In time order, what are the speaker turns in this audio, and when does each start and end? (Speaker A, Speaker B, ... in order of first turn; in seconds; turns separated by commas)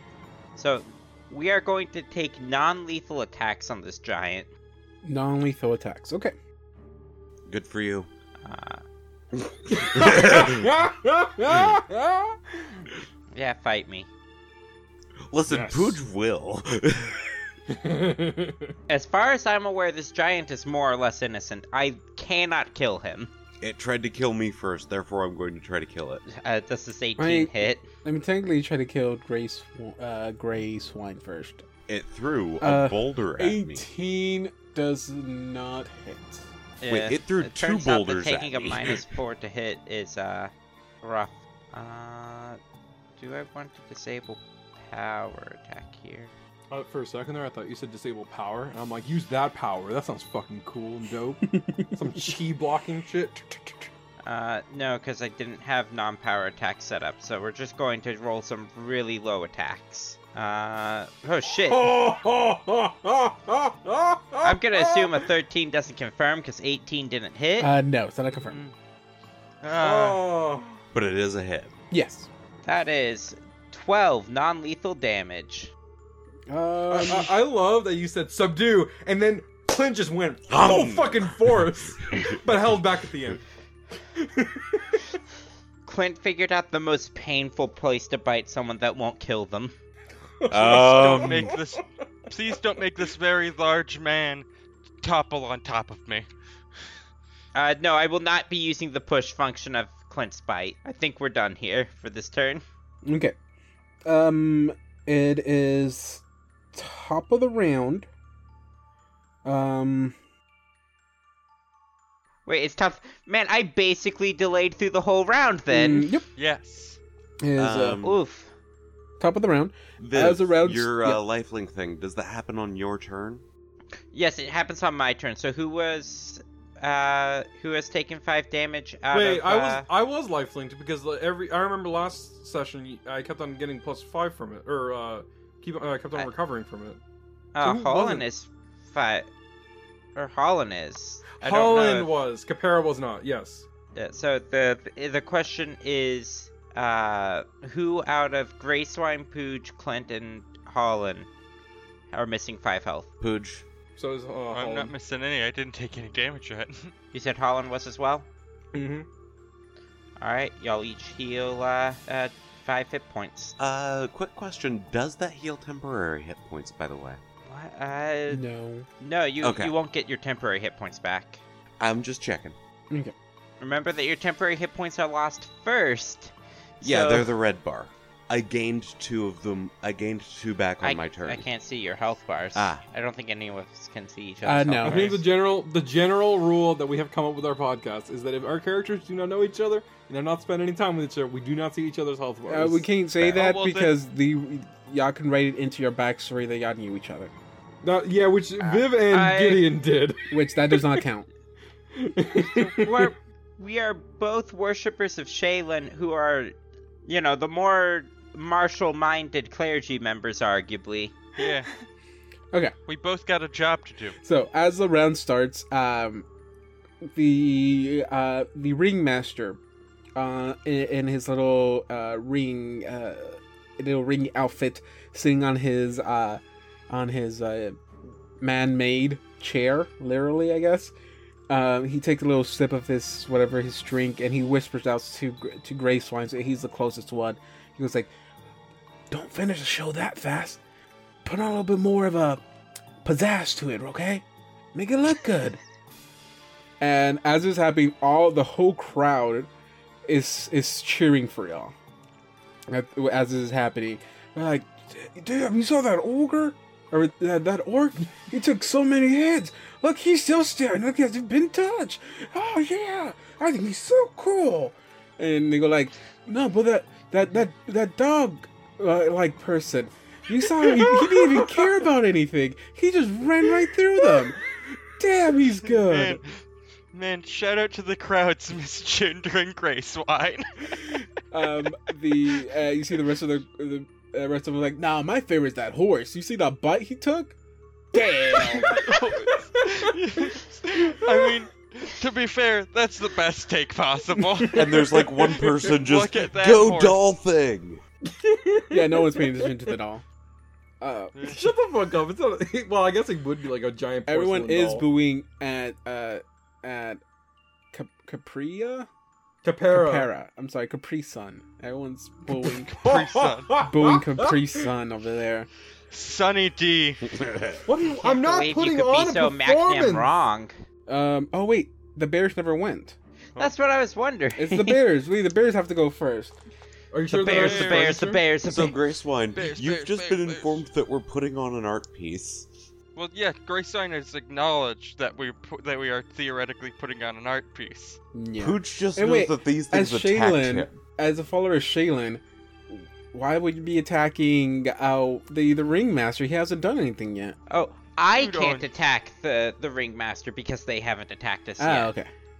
Speaker A: 0.6-4.5, Speaker B: 5.0-6.3, Speaker C: 7.5-8.1, Speaker A: 8.4-8.8, Speaker D: 9.7-12.9, Speaker C: 9.8-10.7, Speaker C: 11.5-11.8, Speaker A: 13.3-14.1, Speaker C: 15.3-17.4, Speaker D: 15.5-16.0, Speaker D: 17.7-18.7, Speaker A: 18.9-23.3, Speaker C: 23.6-26.2, Speaker A: 26.3-27.9, Speaker B: 27.2-31.7, Speaker C: 31.9-33.8, Speaker B: 32.6-36.5, Speaker A: 36.8-40.5, Speaker C: 36.9-39.0, Speaker A: 41.0-42.6, Speaker A: 43.2-46.3, Speaker D: 46.7-53.9, Speaker B: 51.5-52.4, Speaker A: 54.2-61.9, Speaker D: 61.6-65.2, Speaker A: 64.4-67.7, Speaker B: 67.6-68.6, Speaker E: 68.4-68.7, Speaker E: 69.6-70.2, Speaker D: 69.8-70.8, Speaker C: 70.9-71.7, Speaker B: 71.9-72.3, Speaker A: 72.7-75.7, Speaker B: 76.5-77.4, Speaker D: 76.9-83.4, Speaker C: 80.5-82.5, Speaker D: 84.2-85.0, Speaker A: 85.8-89.8, Speaker D: 90.4-91.5, Speaker C: 90.5-91.5, Speaker E: 90.5-94.5, Speaker E: 95.0-96.3, Speaker A: 97.5-102.7, Speaker B: 103.0-103.3, Speaker B: 104.0-108.1, Speaker B: 109.5-110.2, Speaker A: 112.5-116.1, Speaker B: 115.7-116.2, Speaker E: 116.4-117.0, Speaker B: 117.4-118.0, Speaker C: 117.6-118.2, Speaker A: 118.0-118.5, Speaker B: 119.2-121.2, Speaker C: 120.0-123.4, Speaker A: 124.1-129.9, Speaker D: 129.1-137.0, Speaker A: 137.6-139.3, Speaker D: 137.6-138.3, Speaker A: 140.2-141.2, Speaker D: 141.4-143.7, Speaker E: 141.4-142.2, Speaker A: 143.9-151.3, Speaker A: 152.1-153.1, Speaker C: 153.2-153.7, Speaker D: 154.0-154.9, Speaker E: 154.5-156.9, Speaker A: 157.1-158.3, Speaker D: 158.7-159.1, Speaker A: 160.2-163.6, Speaker C: 163.6-167.2, Speaker A: 167.4-168.4, Speaker B: 168.3-168.9, Speaker A: 169.0-171.4, Speaker C: 169.4-169.8, Speaker C: 171.8-172.6, Speaker A: 173.6-177.3, Speaker C: 176.8-181.5, Speaker A: 180.8-185.2, Speaker C: 182.6-182.8, Speaker B: 184.4-185.1, Speaker D: 184.8-192.9, Speaker B: 192.5-197.3, Speaker E: 193.2-193.9, Speaker D: 197.8-201.0, Speaker A: 198.6-199.7, Speaker B: 200.3-201.3, Speaker D: 201.9-203.0, Speaker A: 202.8-206.5, Speaker A: 207.1-211.2, Speaker E: 211.4-211.7, Speaker E: 212.9-214.2, Speaker B: 214.2-216.3, Speaker B: 217.1-219.6, Speaker B: 220.2-227.8, Speaker B: 228.4-230.9, Speaker B: 231.5-238.1, Speaker B: 239.1-240.6, Speaker B: 241.2-242.4, Speaker B: 243.0-245.6, Speaker B: 246.8-249.5, Speaker B: 250.1-251.7, Speaker B: 252.7-276.2, Speaker D: 270.6-271.7, Speaker E: 275.8-276.4, Speaker E: 276.9-281.0, Speaker B: 281.3-287.4, Speaker B: 287.9-288.9, Speaker E: 288.4-297.0, Speaker D: 288.5-289.3, Speaker D: 291.0-291.3, Speaker D: 294.2-295.7, Speaker C: 294.5-297.8, Speaker D: 298.1-299.5, Speaker B: 298.7-300.1, Speaker B: 300.8-301.1, Speaker E: 301.1-301.5, Speaker D: 301.2-304.9, Speaker B: 304.1-307.0, Speaker B: 307.7-308.9, Speaker D: 309.4-310.1, Speaker B: 309.7-312.7, Speaker E: 312.4-313.7, Speaker D: 312.8-314.6, Speaker B: 313.6-315.5, Speaker E: 315.9-317.2, Speaker C: 317.0-317.6, Speaker D: 317.7-320.1, Speaker A: 318.0-320.6, Speaker B: 320.9-323.0, Speaker A: 323.4-324.8, Speaker B: 324.4-326.3, Speaker D: 326.9-328.2, Speaker A: 327.1-328.8, Speaker E: 327.2-328.0, Speaker C: 328.4-332.5, Speaker E: 329.4-330.6, Speaker E: 333.0-338.0, Speaker B: 338.1-347.4, Speaker C: 338.4-340.7, Speaker A: 347.5-351.9, Speaker E: 348.1-348.7, Speaker B: 351.6-352.1